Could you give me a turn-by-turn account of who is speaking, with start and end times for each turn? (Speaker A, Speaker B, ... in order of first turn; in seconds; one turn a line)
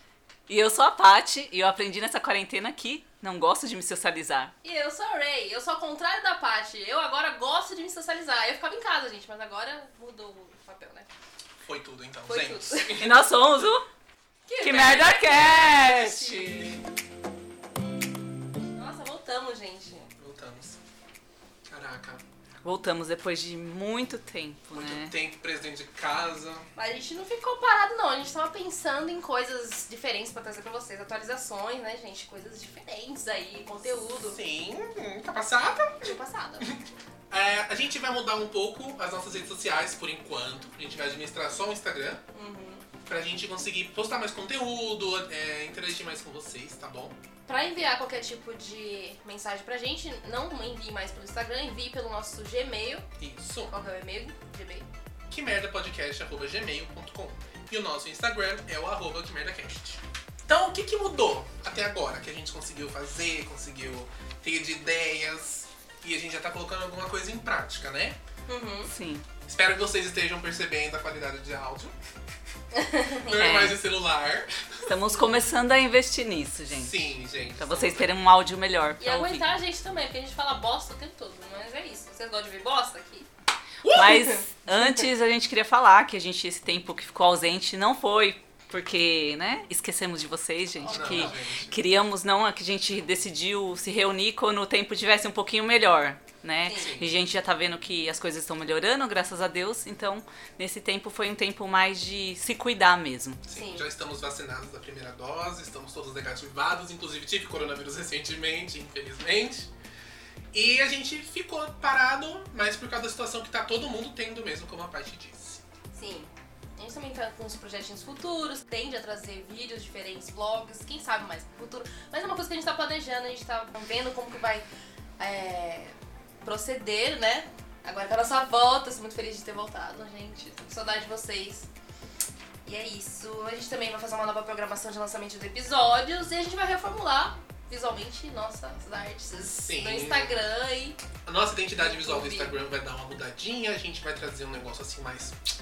Speaker A: 0.5-4.5
Speaker B: 4.6-11.1
Speaker C: 11.6-13.2
Speaker B: 12.3-13.0
Speaker A: 13.0-13.8
Speaker B: 14.5-16.8
Speaker A: 14.6-16.8
Speaker B: 18.8-20.1
Speaker C: 20.1-20.8
Speaker C: 21.7-22.2
Speaker A: 22.6-25.1
Speaker C: 24.7-26.7
Speaker B: 26.8-34.4
Speaker C: 34.2-42.2
Speaker B: 36.0-36.7
Speaker B: 42.3-42.8
Speaker C: 43.0-47.1
Speaker B: 47.5-53.0
Speaker C: 53.2-53.7
Speaker B: 53.7-54.9
Speaker C: 55.3-68.2
Speaker B: 68.5-68.9
Speaker A: 68.9-69.2
Speaker C: 69.4-71.9
Speaker B: 72.7-73.3
Speaker C: 73.2-74.9
Speaker A: 73.3-73.8
Speaker A: 74.9-77.0
Speaker C: 76.7-78.1
Speaker A: 77.6-79.5
Speaker B: 79.0-83.3
Speaker C: 83.8-84.3
Speaker A: 83.9-103.4
Speaker B: 90.8-91.4
Speaker C: 90.9-91.8
Speaker B: 96.6-96.9
Speaker C: 96.7-97.1
Speaker C: 103.5-109.7
Speaker B: 103.5-103.9
Speaker C: 110.5-115.6
Speaker B: 115.9-124.6
Speaker B: 125.2-131.7
Speaker B: 132.6-141.0
Speaker C: 139.6-140.5
Speaker C: 141.2-145.4
Speaker B: 141.8-142.6